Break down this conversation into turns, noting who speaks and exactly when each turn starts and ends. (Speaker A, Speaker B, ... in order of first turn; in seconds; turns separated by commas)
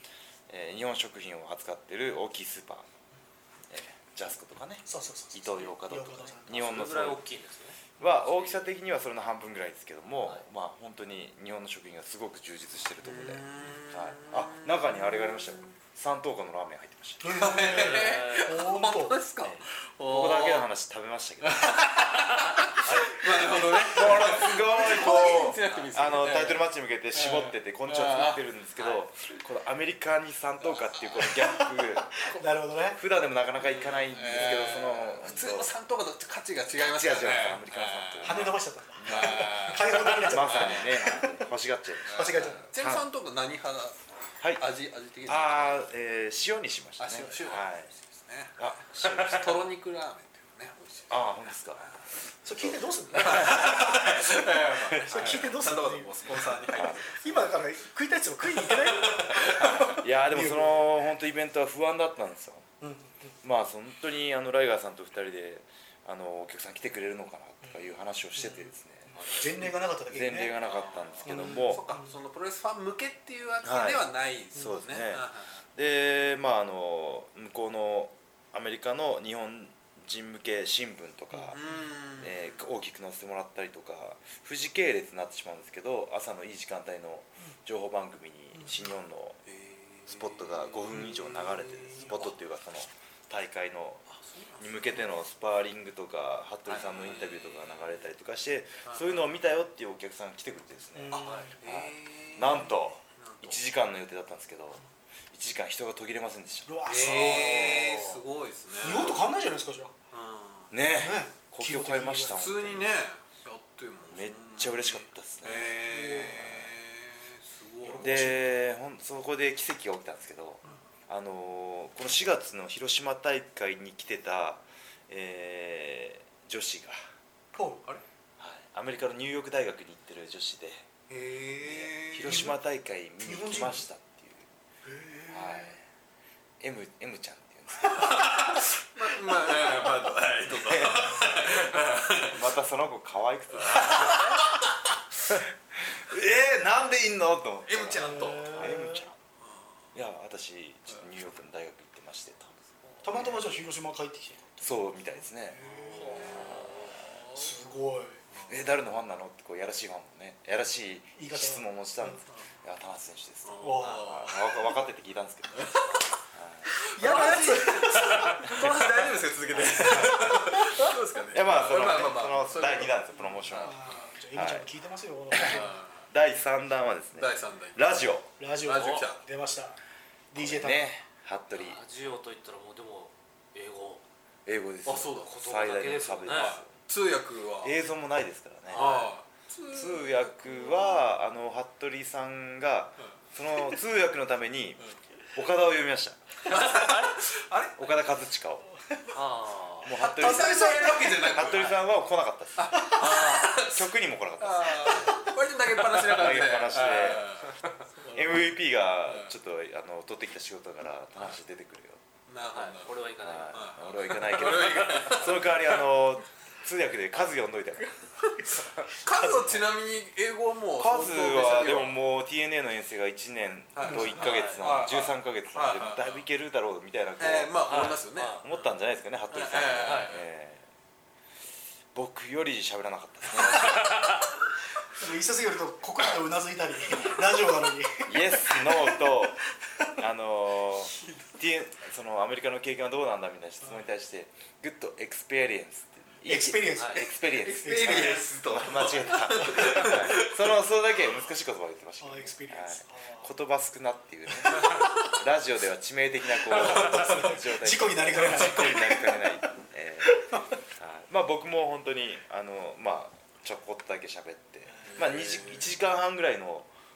Speaker A: 0.5-2.9, Speaker A: 3.7-7.2, Speaker B: 4.8-6.9, Speaker C: 6.5-8.7, Speaker A: 8.0-18.0, Speaker D: 13.0-15.7, Speaker B: 17.2-19.2, Speaker D: 17.3-20.7, Speaker C: 17.9-18.5, Speaker A: 19.4-21.8, Speaker D: 21.4-29.0, Speaker A: 22.8-32.4, Speaker D: 30.6-31.3, Speaker B: 31.6-33.0, Speaker A: 32.9-35.7, Speaker D: 33.6-38.5, Speaker A: 36.8-43.0, Speaker B: 38.2-41.4, Speaker D: 39.0-41.2, Speaker D: 42.0-45.9, Speaker B: 42.1-42.7, Speaker A: 45.2-47.9, Speaker D: 47.0-51.2, Speaker A: 48.6-49.6, Speaker A: 51.1-54.2, Speaker B: 52.4-54.2, Speaker D: 53.1-57.5, Speaker A: 54.7-55.4, Speaker B: 55.0-60.9, Speaker A: 56.7-57.0, Speaker D: 58.6-59.8, Speaker A: 59.5-62.6, Speaker B: 62.8-63.3, Speaker A: 63.4-71.8, Speaker B: 69.2-70.6, Speaker D: 70.6-75.6, Speaker B: 71.2-72.1, Speaker A: 73.6-81.6, Speaker D: 81.4-82.6, Speaker A: 82.2-89.4, Speaker B: 88.5-88.8, Speaker D: 89.5-92.3, Speaker A: 90.1-94.0, Speaker D: 94.1-95.1, Speaker A: 94.6-108.0, Speaker D: 96.7-98.0, Speaker D: 98.8-99.3, Speaker B: 100.9-101.5, Speaker D: 101.1-103.6, Speaker B: 106.7-108.1, Speaker D: 106.8-109.2, Speaker B: 108.8-109.9, Speaker D: 110.1-110.7, Speaker A: 110.7-112.9, Speaker B: 110.9-112.4, Speaker D: 112.3-118.3, Speaker A: 114.1-116.7, Speaker B: 115.9-116.3, Speaker B: 117.8-118.6, Speaker A: 118.0-127.0, Speaker B: 127.5-127.9, Speaker A: 128.4-130.8, Speaker D: 131.1-132.4, Speaker A: 131.6-134.5, Speaker B: 132.2-132.6, Speaker B: 133.2-133.8, Speaker B: 134.8-135.8, Speaker A: 135.3-135.8, Speaker A: 136.6-138.4, Speaker D: 137.9-142.4, Speaker A: 140.5-144.3, Speaker D: 143.5-144.4, Speaker A: 145.3-149.1, Speaker D: 147.7-148.7, Speaker B: 147.9-149.1, Speaker D: 149.4-149.7, Speaker A: 149.9-153.4, Speaker B: 153.0-156.7, Speaker A: 154.6-156.9, Speaker D: 155.7-157.5, Speaker B: 157.3-158.2, Speaker A: 158.5-165.8, Speaker B: 161.2-162.2, Speaker D: 163.4-164.7, Speaker B: 163.6-164.3, Speaker D: 165.5-166.0, Speaker A: 166.3-166.7, Speaker B: 166.7-168.7, Speaker D: 166.9-173.9, Speaker A: 168.4-168.9, Speaker A: 169.5-170.6, Speaker B: 169.8-170.9, Speaker A: 171.3-174.7, Speaker B: 173.5-175.7, Speaker A: 175.3-178.3, Speaker D: 175.4-176.0, Speaker D: 177.1-177.8, Speaker B: 178.4-179.8, Speaker D: 178.6-179.2, Speaker B: 180.3-180.9, Speaker A: 180.3-181.8, Speaker C: 181.5-184.0, Speaker A: 184.4-186.8, Speaker D: 184.8-185.3, Speaker C: 185.2-186.6, Speaker D: 186.2-187.8, Speaker A: 187.6-188.9, Speaker C: 188.7-189.1, Speaker D: 188.7-191.1, Speaker A: 189.7-196.9, Speaker D: 196.4-197.8, Speaker A: 197.8-198.7, Speaker C: 199.1-199.9, Speaker A: 199.8-205.2, Speaker D: 199.9-201.8, Speaker B: 200.2-201.3, Speaker D: 202.6-208.4, Speaker B: 202.7-203.0, Speaker A: 205.9-207.4, Speaker A: 208.1-212.0, Speaker D: 209.1-209.3, Speaker D: 212.3-215.8, Speaker C: 212.5-215.2, Speaker A: 213.2-218.0, Speaker A: 218.5-218.9, Speaker D: 219.0-222.0, Speaker A: 220.8-227.8, Speaker D: 223.8-226.2, Speaker C: 224.1-224.8, Speaker D: 227.2-228.4, Speaker C: 227.6-228.5, Speaker A: 228.4-230.6, Speaker D: 229.3-230.2, Speaker C: 229.6-230.1, Speaker A: 231.9-234.0, Speaker C: 233.7-234.1, Speaker B: 234.8-239.2, Speaker A: 236.9-237.2, Speaker A: 238.1-239.4, Speaker A: 240.0-266.7, Speaker B: 246.2-248.3, Speaker D: 247.2-250.5, Speaker B: 249.4-249.9, Speaker B: 252.0-253.3, Speaker B: 254.4-254.8, Speaker B: 256.4-259.2, Speaker B: 260.0-260.5, Speaker D: 264.9-265.7